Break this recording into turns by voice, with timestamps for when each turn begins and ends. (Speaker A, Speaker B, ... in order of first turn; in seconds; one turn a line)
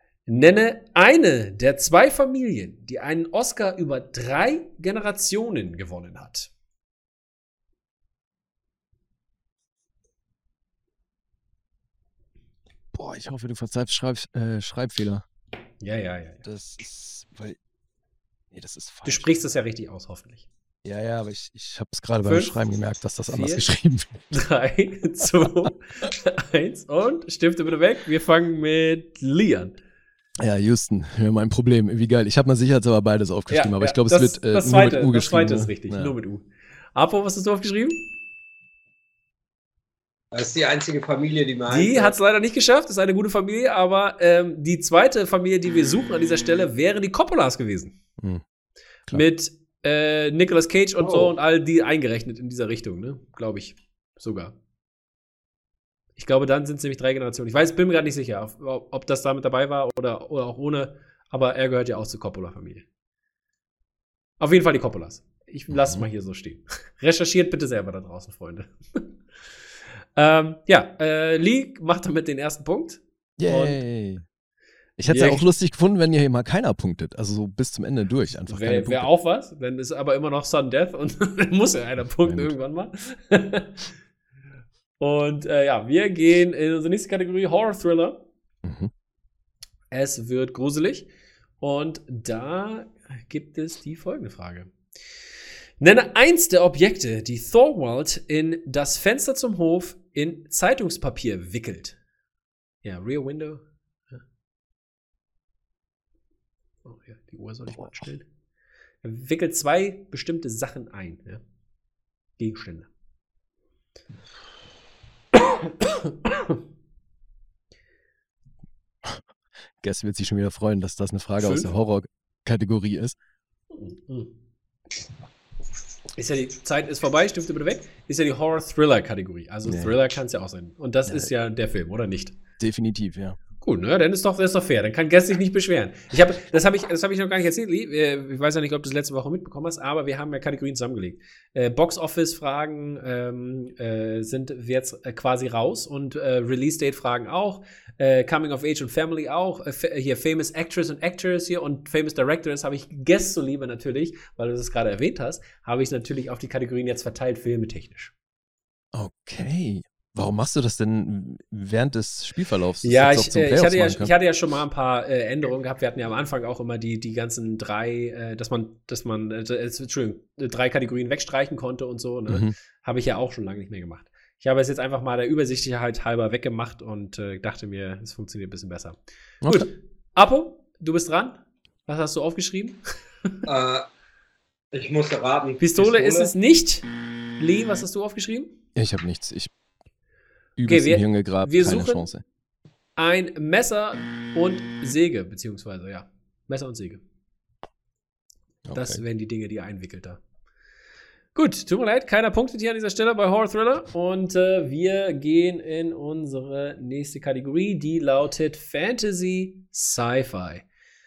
Speaker A: 0.3-6.5
Speaker B: 12.9-15.2
Speaker A: 15.8-16.4
Speaker B: 16.4-17.6
Speaker B: 18.5-19.3
Speaker A: 19.1-20.5
Speaker B: 20.8-24.2
Speaker A: 22.2-22.6
Speaker A: 23.3-23.7
Speaker A: 24.3-29.8
Speaker B: 30.4-36.1
Speaker A: 33.5-38.0
Speaker C: 40.3-42.1
Speaker A: 41.7-48.0
Speaker A: 49.1-54.5
Speaker C: 51.0-51.3
Speaker A: 56.2-62.9
Speaker A: 64.4-69.1
Speaker B: 65.7-66.1
Speaker A: 70.2-73.8
Speaker B: 73.4-74.2
Speaker B: 75.0-79.1
Speaker A: 75.1-75.5
Speaker A: 78.5-83.9
Speaker B: 82.2-82.5
Speaker A: 85.0-88.2
Speaker B: 88.6-88.9
Speaker A: 89.9-91.1
Speaker A: 91.6-94.7
Speaker A: 95.8-102.0
Speaker A: 102.8-104.2
Speaker A: 106.8-108.3
Speaker A: 109.0-111.4
Speaker A: 112.4-112.9
Speaker A: 115.3-116.6
Speaker B: 119.8-123.2
Speaker A: 121.4-121.7
Speaker A: 123.7-124.3
Speaker A: 126.2-132.4
Speaker B: 129.7-130.0
Speaker B: 132.6-133.4
Speaker A: 133.6-158.1
Speaker B: 158.9-164.1
Speaker A: 162.8-183.3
Speaker B: 172.3-172.5
Speaker B: 179.4-179.7
Speaker C: 183.4-183.9
Speaker C: 184.7-186.3
Speaker A: 185.6-186.9
Speaker A: 187.4-188.5
Speaker B: 188.8-189.5
Speaker B: 190.6-192.2
Speaker A: 190.6-192.1
Speaker A: 193.0-197.0
Speaker B: 198.7-199.0
Speaker A: 198.7-200.2
Speaker A: 201.3-210.7